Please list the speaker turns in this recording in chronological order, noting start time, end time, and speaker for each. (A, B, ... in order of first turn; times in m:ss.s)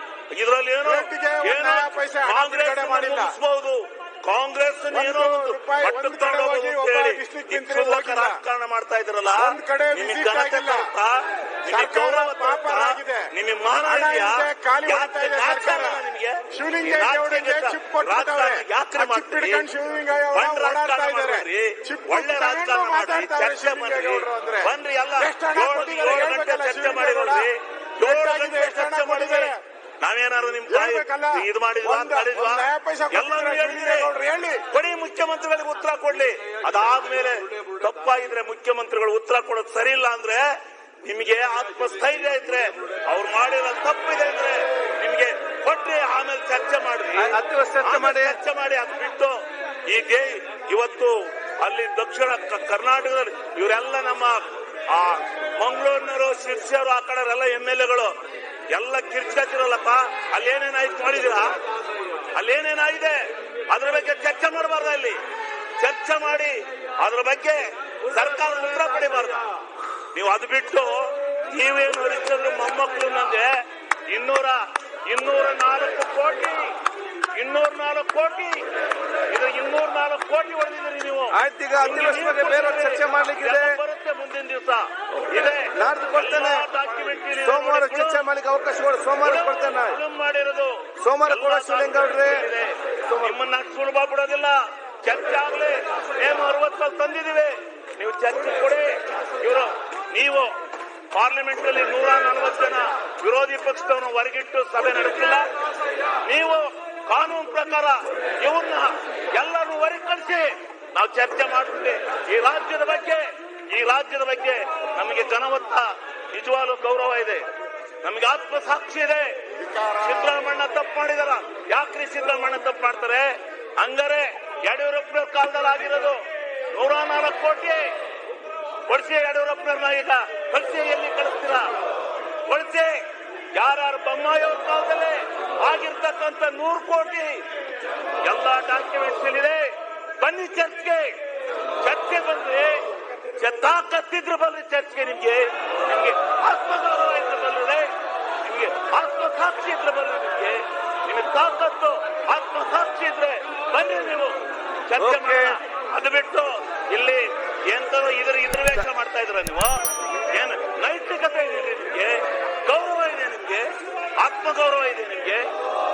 0:00.3-0:19.7 A
0:00.8-0:03.3 B
0:04.9-0:08.4 B
0:09.3-0:10.9 B
0:11.6-0:13.3 B
0:13.8-0:27.5 B
0:20.3-0:34.1 A
0:28.0-0:29.6 B
0:30.7-0:34.6 B
0:34.7-0:58.1 A
0:47.2-0:48.4 C
0:58.7-1:01.5 A
1:02.3-1:05.2 A
1:05.8-1:09.4 A
1:10.1-1:16.7 A
1:17.3-1:18.6 A
1:19.3-1:28.2 A
1:21.3-1:23.8 C
1:25.7-1:26.7 C
1:27.4-1:30.0 C
1:29.2-1:40.5 A
1:31.0-1:32.5 C
1:33.1-1:33.4 C
1:41.1-1:45.4 A
1:46.2-1:57.4 A
1:58.0-1:59.4 A
1:59.6-2:00.4 B
2:00.0-2:07.9 A
2:08.9-2:11.7 A
2:12.5-2:17.4 A
2:18.2-2:21.2 A
2:21.8-2:22.8 A
2:23.4-2:27.9 A
2:28.4-2:43.7 A
2:35.0-2:35.6 C
2:44.2-2:45.5 A